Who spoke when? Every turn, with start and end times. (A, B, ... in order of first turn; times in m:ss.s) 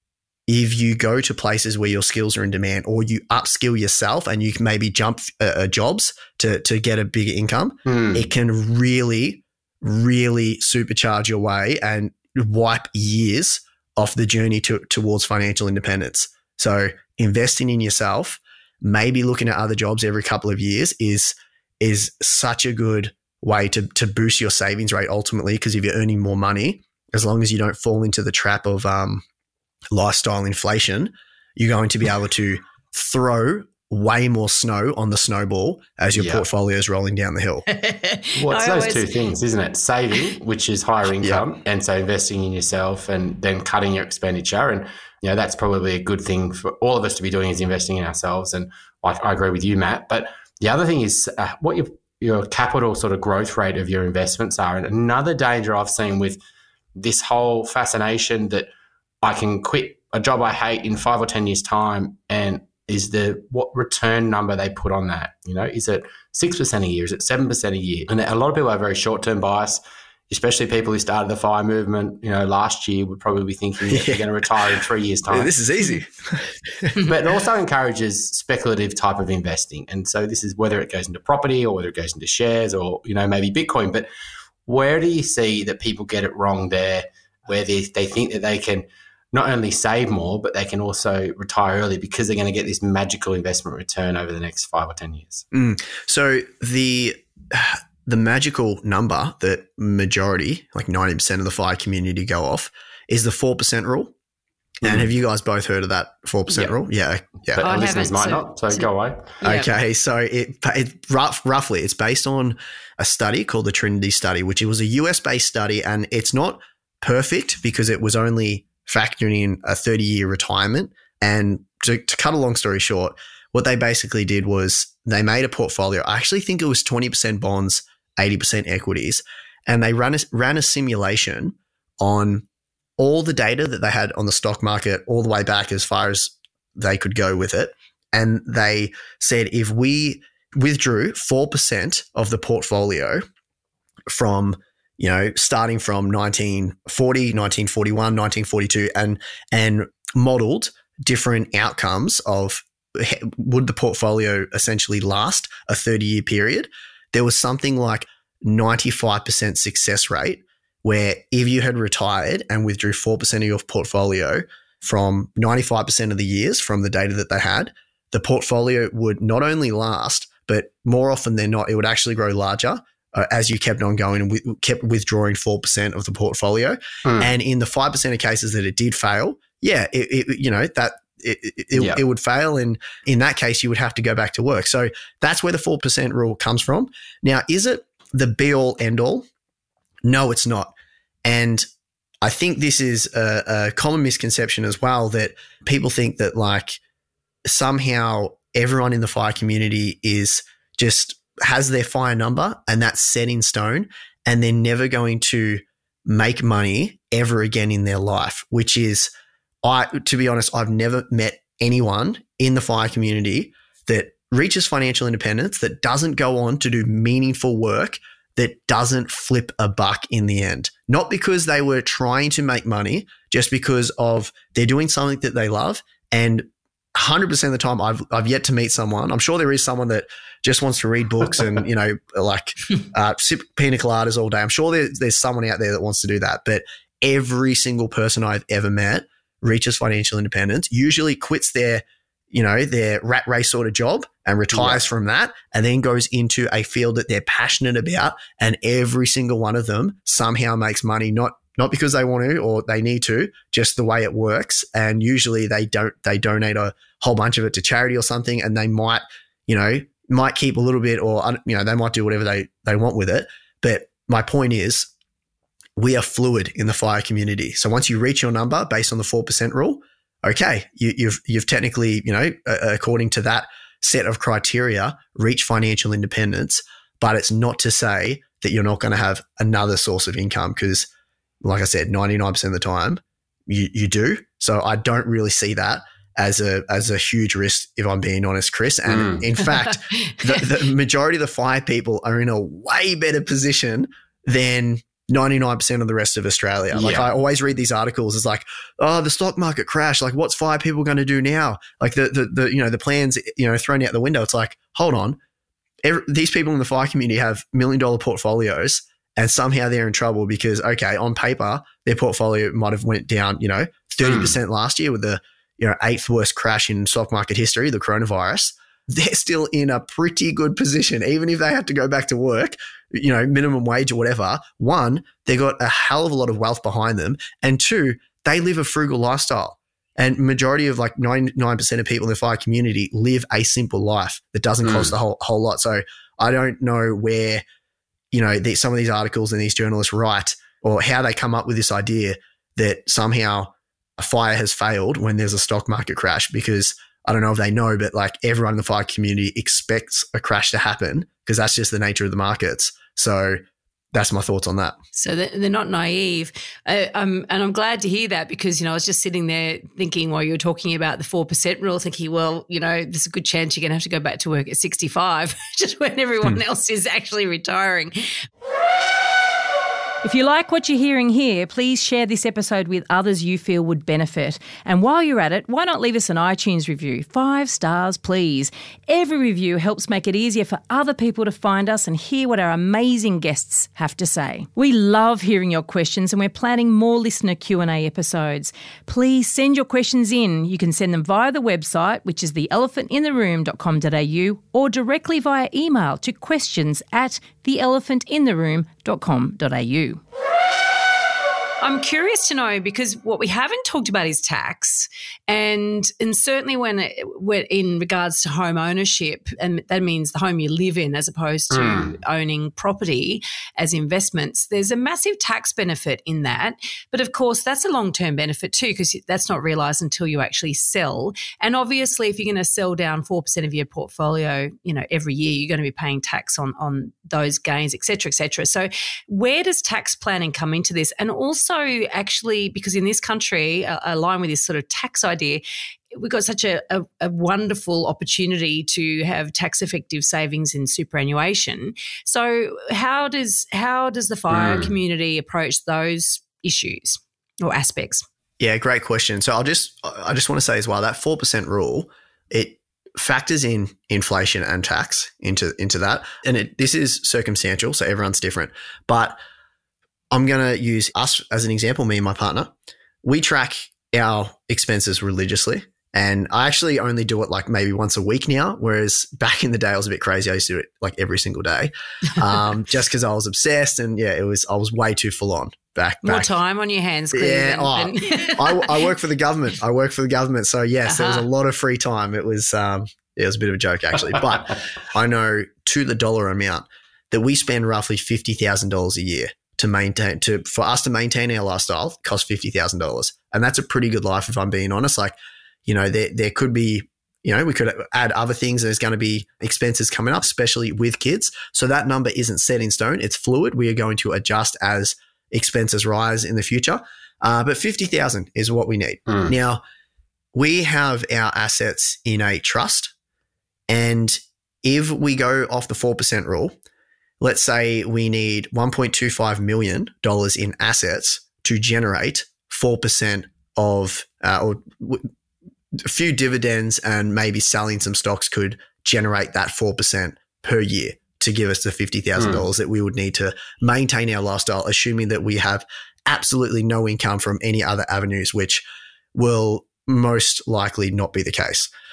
0:00.5-0:29.2 A
0:07.9-0:08.3 B
0:29.9-0:37.7 A
0:36.1-0:36.4 B
0:37.7-0:39.0 C
0:38.4-0:56.4 B
0:41.2-0:41.4 A
0:57.0-0:58.7 B
0:59.2-1:15.5 B
1:13.9-1:17.0 A
1:17.0-1:24.0 B
1:24.6-1:35.4 B
1:35.5-1:44.1 A
1:44.8-1:45.1 B
1:44.8-1:47.6 A
1:47.5-1:49.4 B
1:47.6-1:48.9 C
1:49.4-1:49.7 C
1:49.4-2:12.4 A
2:13.0-2:23.2 A
2:24.1-3:09.2 A
2:57.0-2:57.3 B
3:01.7-3:02.0 B
3:10.0-3:10.7 A
3:11.2-3:11.6 A
3:12.2-3:16.8 A
3:17.4-3:29.1 A
3:29.6-4:24.9 A
4:04.5-4:04.8 B
4:25.8-4:40.9 A
4:41.4-5:05.2 A
4:48.9-4:49.3 B
4:49.6-4:50.4 C
4:56.7-4:57.1 B
5:05.8-5:37.4 A
5:14.0-5:14.4 B
5:34.6-5:34.9 B
5:38.1-5:53.4 A
5:53.9-5:54.8 A
5:54.9-6:08.1 C
6:10.0-6:40.0 C
6:41.6-7:28.0 C
6:51.5-6:51.9 B
7:24.3-7:24.7 B
7:28.4-7:39.2 A
7:40.1-7:56.4 A
7:56.0-7:58.9 C
7:57.1-8:15.1 A
8:00.8-8:01.3 C
8:15.6-8:29.6 A
8:29.1-8:29.3 B
8:30.3-8:32.9 A
8:33.7-8:36.5 A
8:37.2-8:45.1 A
8:45.8-9:01.7 A
8:52.2-8:52.4 B